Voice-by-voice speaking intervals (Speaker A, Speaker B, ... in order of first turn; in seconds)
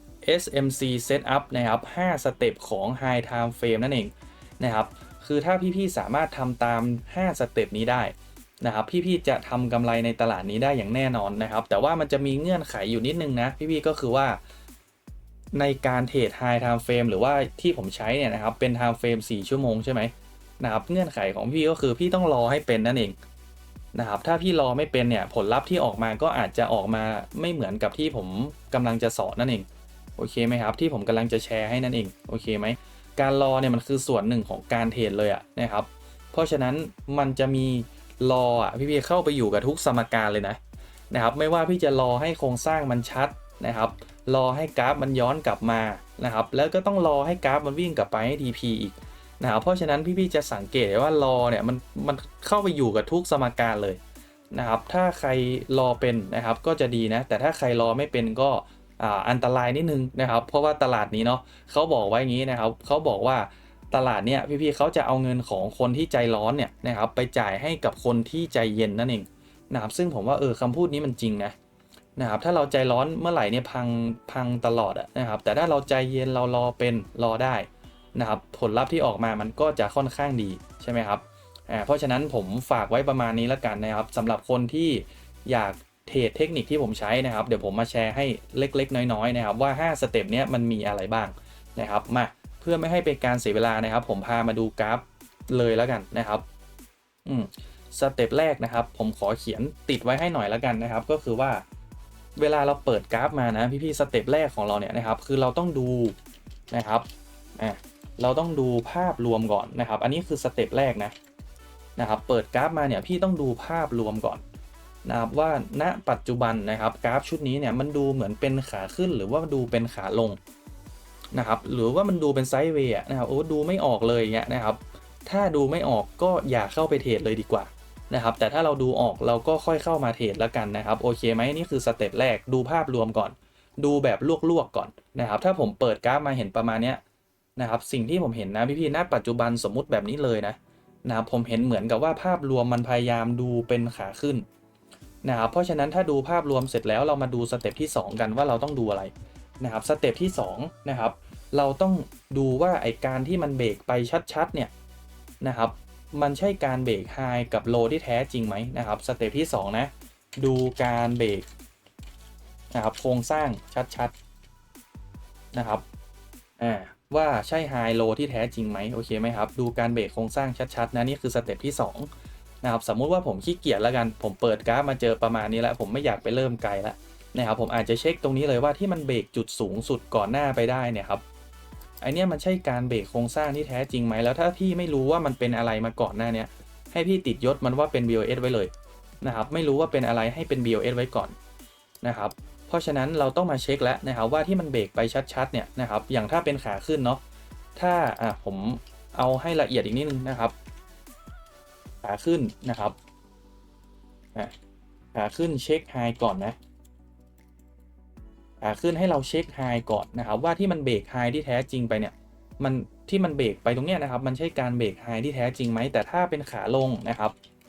Speaker A: 0.2-14.4, 15.5-23.2, 23.9-40.6, 41.1-54.0, 54.5-71.5, 72.2-96.5, 97.2-101.6, 102.4-106.2, 106.7-111.1, 112.0-114.4, 115.0-120.4, 121.3-137.0, 137.6-144.4, 145.2-154.7, 155.4-161.5, 162.7-164.1, 165.5-165.8, 166.6-172.1, 172.6-181.2, 182.0-191.3, 192.0-197.2, 197.8-200.6, 202.0-203.0, 205.1-206.6, 208.6-217.4